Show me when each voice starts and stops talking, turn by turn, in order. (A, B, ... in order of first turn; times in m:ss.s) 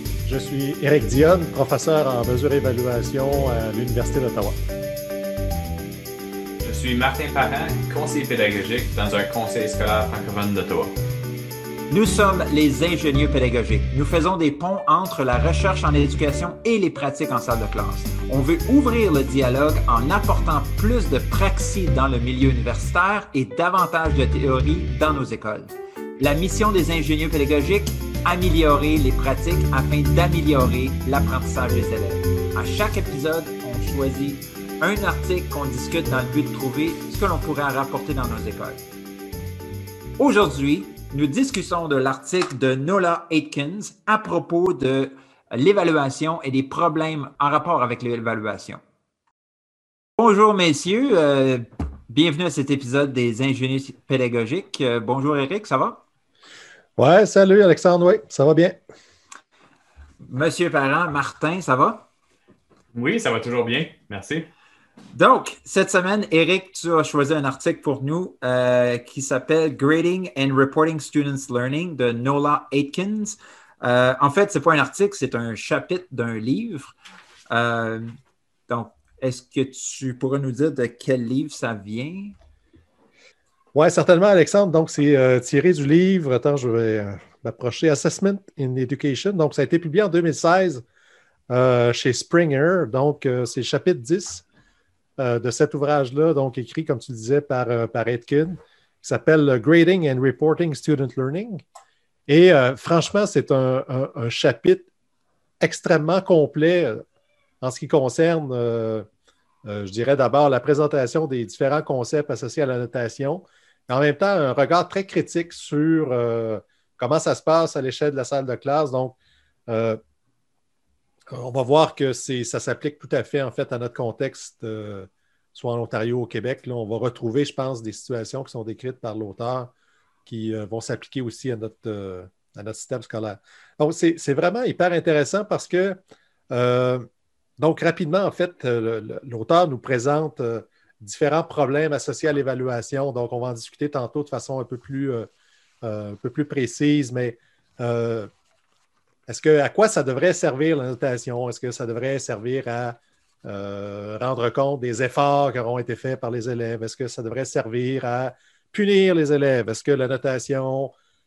0:00.2-0:04.6 A
0:06.6-0:10.9 B
0:11.9-0:38.8 C
0:40.2-0:48.8 C
0:50.2-0:56.0 C
0:57.0-0:58.8 A
1:00.2-1:02.1 C
1:02.9-1:04.5 B
1:05.1-1:16.9 C
1:17.5-1:18.2 C
1:18.7-1:22.4 C
1:23.7-1:30.8 A
1:31.5-1:34.4 A
1:35.2-1:41.6 A
1:42.3-1:44.9 A
1:45.6-1:47.0 A
1:47.6-1:49.0 A
1:49.6-1:59.2 A
1:59.7-2:00.0 A
2:01.3-2:09.7 A
2:10.2-2:16.0 A
2:16.5-2:17.0 A
2:17.6-2:25.3 A
2:25.8-2:28.3 A
2:29.3-2:40.9 A